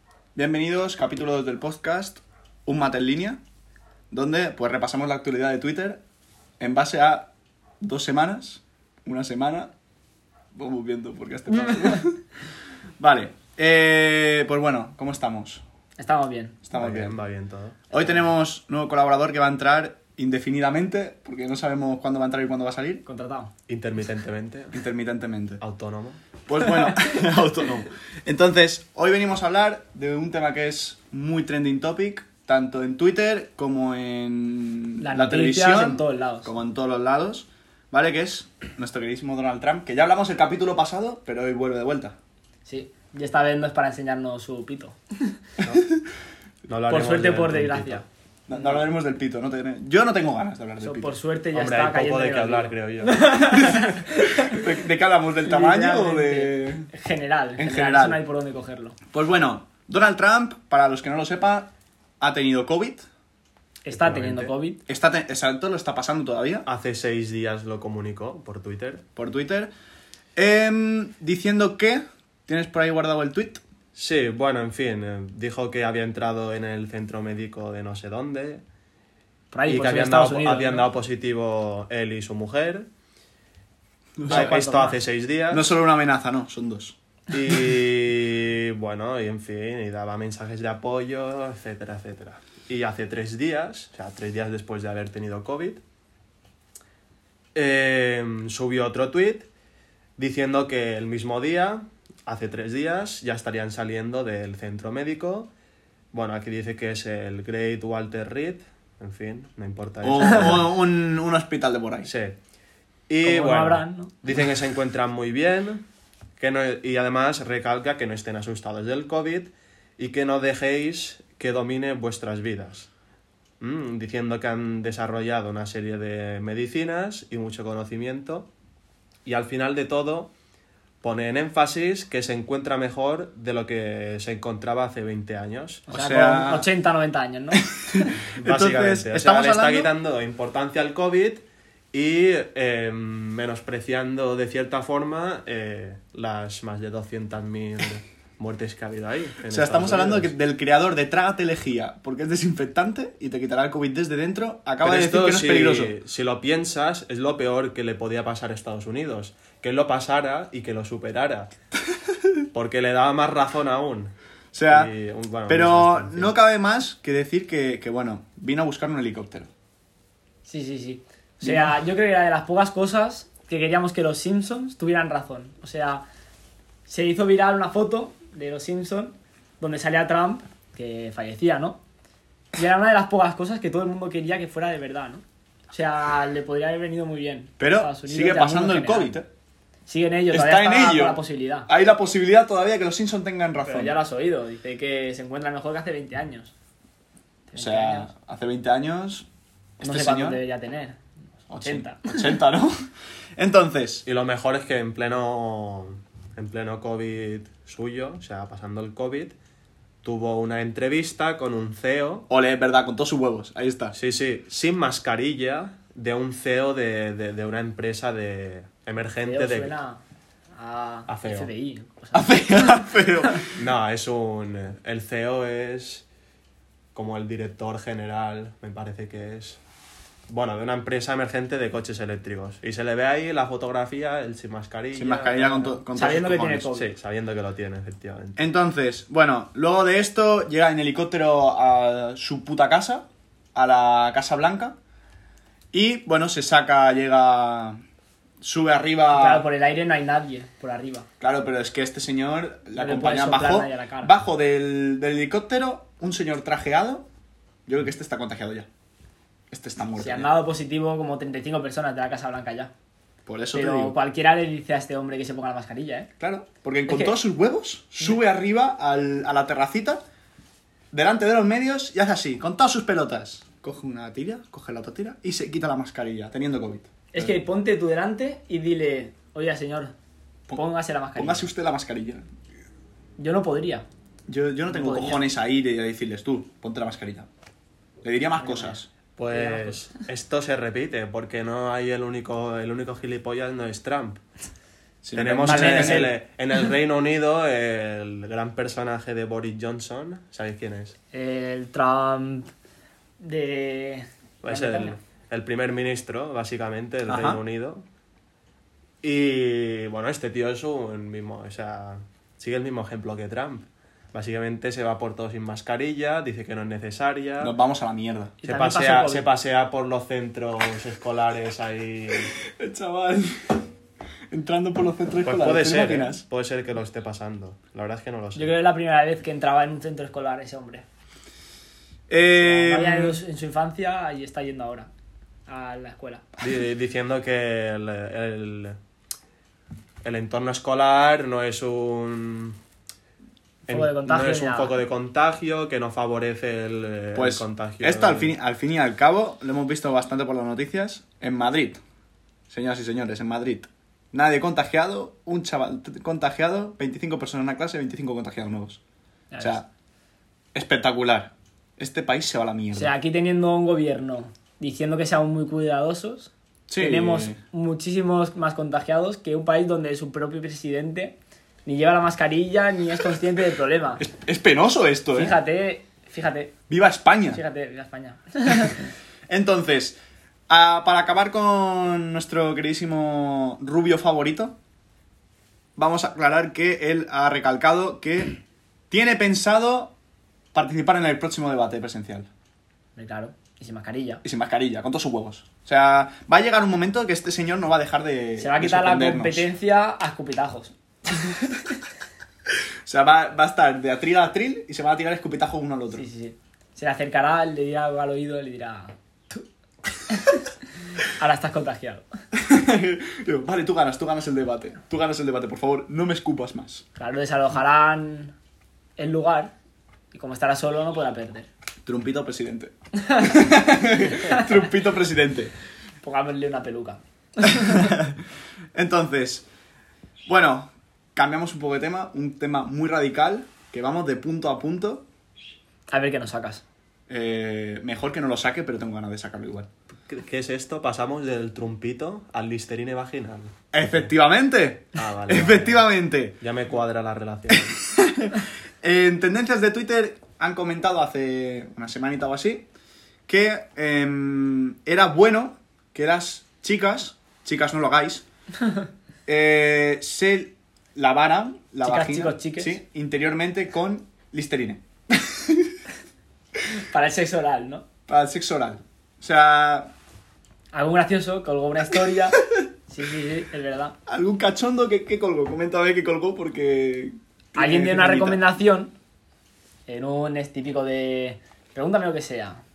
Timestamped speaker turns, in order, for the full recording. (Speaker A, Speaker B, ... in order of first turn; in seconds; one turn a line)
Speaker A: 0.3-3.4
Speaker A: 4.1-6.0
Speaker A: 6.6-7.3
Speaker A: 7.8-9.7
Speaker A: 10.6-12.2
Speaker B: 11.6-12.0
Speaker A: 13.0-15.6
Speaker B: 16.0-16.6
Speaker A: 16.6-17.1
Speaker C: 16.7-18.1
Speaker A: 17.9-23.0
Speaker B: 23.1-23.5
Speaker C: 23.7-24.8
Speaker A: 24.7-25.6
Speaker C: 25.6-26.2
Speaker A: 26.5-42.2
Speaker B: 35.0-36.5
Speaker B: 42.7-45.3
Speaker A: 45.6-46.0
Speaker C: 46.7-48.0
Speaker B: 46.9-48.1
Speaker A: 48.5-51.2
Speaker B: 50.8-54.6
Speaker C: 51.5-53.3
Speaker A: 53.6-56.9
Speaker B: 55.5-59.0
Speaker A: 57.6-58.2
Speaker A: 59.1-63.1
Speaker B: 63.9-64.8
Speaker C: 63.9-64.5
Speaker A: 64.9-66.7
Speaker C: 66.7-69.0
Speaker A: 69.2-69.7
Speaker A: 70.4-73.6
Speaker C: 74.0-78.6
Speaker B: 79.5-80.9
Speaker C: 79.7-82.9
Speaker A: 84.2-84.5
Speaker B: 84.2-85.0
Speaker C: 84.3-85.7
Speaker A: 85.5-87.0
Speaker C: 87.3-95.8
Speaker C: 97.5-99.5
Speaker C: 100.2-105.5
Speaker C: 106.1-110.7
Speaker A: 110.0-112.1
Speaker C: 112.0-112.4
Speaker C: 113.1-115.8
Speaker B: 113.2-114.2
Speaker C: 116.4-122.9
Speaker C: 123.6-128.5
Speaker C: 129.2-130.3
Speaker C: 131.0-135.8
Speaker B: 135.9-138.1
Speaker A: 135.9-136.7
Speaker A: 137.9-139.9
Speaker C: 138.3-150.3
Speaker A: 149.5-155.9
Speaker C: 154.8-161.5
Speaker C: 162.5-164.1
Speaker A: 164.5-164.9
Speaker C: 164.7-166.3
Speaker A: 165.5-169.5
Speaker B: 170.5-176.0
Speaker A: 171.4-171.8
Speaker B: 176.9-181.8
Speaker B: 182.5-189.2
Speaker A: 187.6-189.3
Speaker B: 189.9-191.7
Speaker A: 190.3-194.0
Speaker B: 193.7-196.5
Speaker B: 197.5-198.1
Speaker A: 197.6-199.3
Speaker A: 199.8-200.4
Speaker B: 199.8-201.0
Speaker A: 201.5-202.8
Speaker B: 201.6-202.4
Speaker A: 203.4-204.1
Speaker C: 204.1-209.3
Speaker C: 210.0-212.3
Speaker A: 212.3-213.9
Speaker C: 213.9-219.7
Speaker B: 219.2-220.0
Speaker B: 220.6-223.4
Speaker C: 221.1-221.5
Speaker A: 222.1-223.5
Speaker C: 223.6-226.1
Speaker C: 226.9-229.6
Speaker C: 230.3-235.9
Speaker A: 234.9-236.7
Speaker B: 235.9-236.9
Speaker C: 236.7-238.4
Speaker A: 238.4-244.8
Speaker A: 245.7-247.8
Speaker A: 248.4-249.4
Speaker B: 249.1-251.1
Speaker A: 251.2-257.1
Speaker B: 252.8-254.1
Speaker A: 257.7-258.7
Speaker A: 259.5-260.3
Speaker B: 260.0-262.7
Speaker A: 263.3-263.9
Speaker B: 263.5-266.1
Speaker A: 266.2-270.0
Speaker B: 266.9-267.2
Speaker A: 270.9-277.4
Speaker B: 277.1-279.9
Speaker B: 280.5-281.5
Speaker A: 281.2-282.3
Speaker B: 283.2-283.9
Speaker A: 284.3-287.3
Speaker B: 284.7-285.2
Speaker A: 288.0-288.9
Speaker B: 288.4-288.8
Speaker C: 289.2-294.2
Speaker B: 289.3-290.0
Speaker A: 295.0-296.1
Speaker C: 295.1-301.0
Speaker B: 295.4-296.1
Speaker B: 301.1-302.5
Speaker B: 303.2-305.0
Speaker C: 304.4-307.8
Speaker A: 307.1-307.4
Speaker C: 309.0-317.5
Speaker A: 317.4-318.3
Speaker B: 318.4-319.2
Speaker C: 318.4-322.3
Speaker A: 322.5-323.6
Speaker A: 324.3-326.2
Speaker C: 325.2-328.5
Speaker B: 328.4-330.8
Speaker A: 332.1-333.2
Speaker B: 332.4-334.9
Speaker B: 335.5-336.3
Speaker C: 336.4-338.8
Speaker C: 340.0-342.6
Speaker B: 343.7-344.8
Speaker C: 343.7-348.3
Speaker A: 347.1-351.8
Speaker A: 352.5-358.8
Speaker B: 359.3-359.6
Speaker A: 359.4-359.7
Speaker A: 360.6-362.9
Speaker B: 362.7-374.0
Speaker A: 366.7-367.4
Speaker A: 374.0-375.4
Speaker B: 375.1-376.5
Speaker A: 376.7-377.4
Speaker B: 377.3-378.9
Speaker A: 379.3-384.6
Speaker A: 385.8-388.4
Speaker A: 388.9-389.9
Speaker A: 390.5-392.3
Speaker B: 393.0-394.2
Speaker A: 394.2-399.5
Speaker B: 398.4-401.6
Speaker A: 402.9-406.1
Speaker B: 405.9-409.4
Speaker B: 410.1-410.4
Speaker B: 411.1-412.1
Speaker A: 412.4-416.8
Speaker B: 417.0-418.3
Speaker B: 419.0-419.5
Speaker B: 420.1-421.5
Speaker A: 421.9-425.5
Speaker B: 426.0-427.9
Speaker A: 427.6-428.1
Speaker A: 428.8-429.5
Speaker A: 430.3-435.1
Speaker B: 435.9-436.6
Speaker A: 437.1-439.7
Speaker C: 440.1-444.0
Speaker A: 443.7-446.4
Speaker C: 445.0-445.9
Speaker C: 446.4-447.8
Speaker A: 447.8-452.6
Speaker A: 453.3-458.2
Speaker A: 459.3-465.8
Speaker B: 461.8-462.8
Speaker B: 466.7-467.9
Speaker A: 468.1-469.9
Speaker B: 470.7-473.9
Speaker A: 474.1-478.4
Speaker B: 477.6-478.9
Speaker B: 479.9-482.6